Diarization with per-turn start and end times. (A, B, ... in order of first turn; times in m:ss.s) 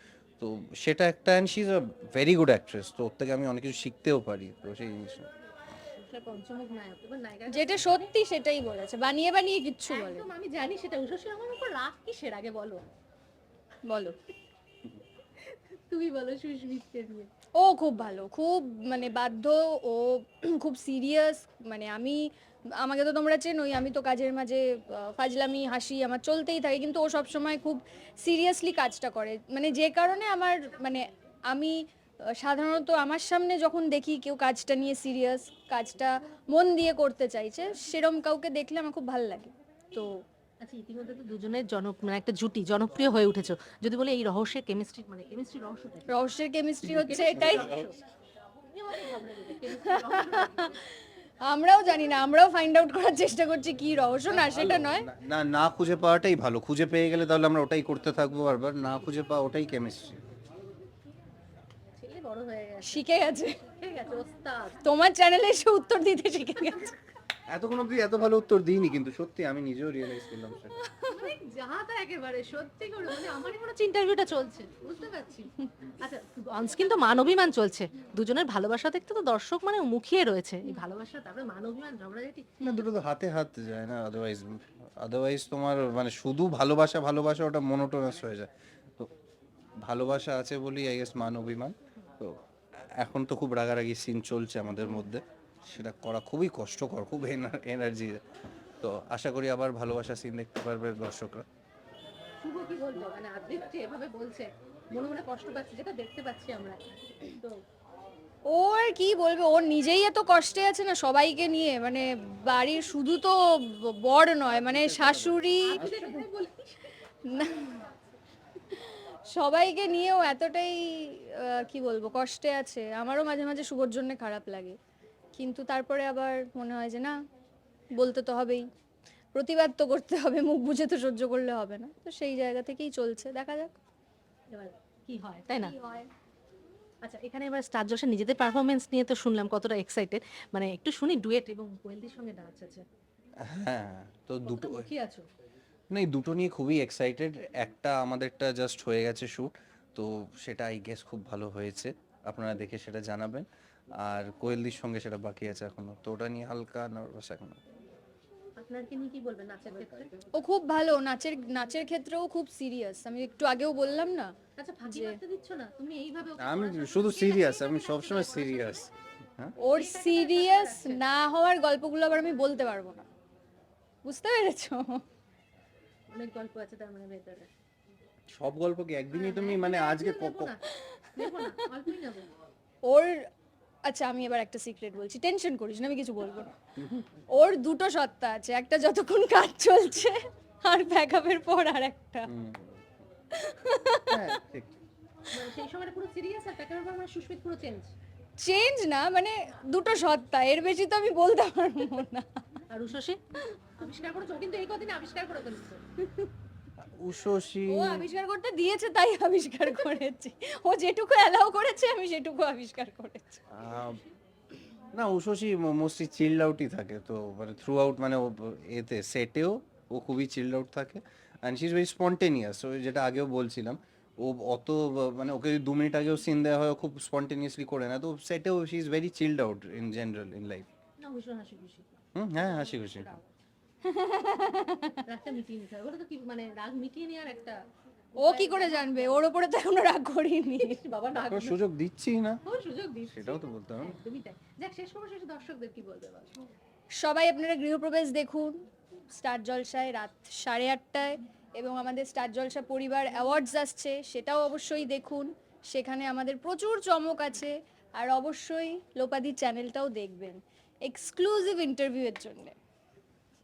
0:00.4-0:05.3 A
0:06.0-0:08.1 B
0:07.5-0:10.3 C
0:09.9-0:12.8 B
0:13.9-0:14.2 C
0:15.4-0:17.3 B
0:17.6-0:22.3 C
0:22.8-0:31.8 C
0:32.4-0:40.2 C
0:40.6-0:46.1 B
0:46.1-0:47.8 C
0:46.8-0:48.0 B
0:47.4-0:47.8 A
0:48.7-0:50.8 B
0:49.8-0:55.1 C
0:54.3-1:00.2 A
1:02.0-1:04.9 B
1:02.8-1:03.6 C
1:04.8-1:07.0 C
1:07.5-1:10.8 A
1:10.8-1:11.3 C
1:11.1-1:22.5 B
1:22.6-1:29.1 A
1:29.8-1:32.4 A
1:33.0-1:38.2 A
1:38.8-1:41.5 A
1:42.4-1:47.6 B
1:48.5-1:55.9 C
1:54.5-1:56.1 A
1:55.7-1:56.9 B
1:57.3-1:57.8 C
1:58.7-2:04.8 C
2:05.3-2:07.2 C
2:08.0-2:08.6 C
2:09.3-2:13.8 C
2:14.5-2:15.7 B
2:15.6-2:16.1 C
2:17.0-2:22.8 B
2:23.4-2:24.9 A
2:24.4-2:25.2 B
2:25.9-2:33.5 A
2:34.0-2:37.6 A
2:38.6-2:40.1 B
2:40.3-2:44.3 C
2:44.6-2:48.9 B
2:44.9-2:45.2 C
2:46.4-2:49.5 A
2:49.6-2:53.1 C
2:49.6-2:51.0 B
2:54.0-2:55.0 C
2:56.1-2:57.5 B
2:58.3-3:00.5 A
2:59.1-3:02.3 B
3:00.8-3:01.1 C
3:02.9-3:03.3 C
3:03.8-3:06.5 C
3:06.8-3:07.1 A
3:07.3-3:12.3 C
3:12.3-3:12.9 A
3:13.3-3:14.3 C
3:14.1-3:14.8 A
3:15.3-3:17.9 B
3:18.4-3:22.4 C
3:22.7-3:23.2 B
3:23.8-3:26.3 B
3:26.8-3:28.1 A
3:27.7-3:33.4 C
3:33.5-3:34.0 A
3:34.9-3:50.7 A
3:51.0-3:53.2 B
3:52.2-3:53.2 A
3:53.8-3:55.0 C
3:55.1-3:57.6 B
3:58.2-3:59.3 B
3:58.2-4:00.8 C
4:00.5-4:01.6 B
4:01.1-4:02.4 A
4:02.4-4:06.4 B
4:03.1-4:04.0 A
4:07.0-4:08.6 C
4:09.1-4:22.6 C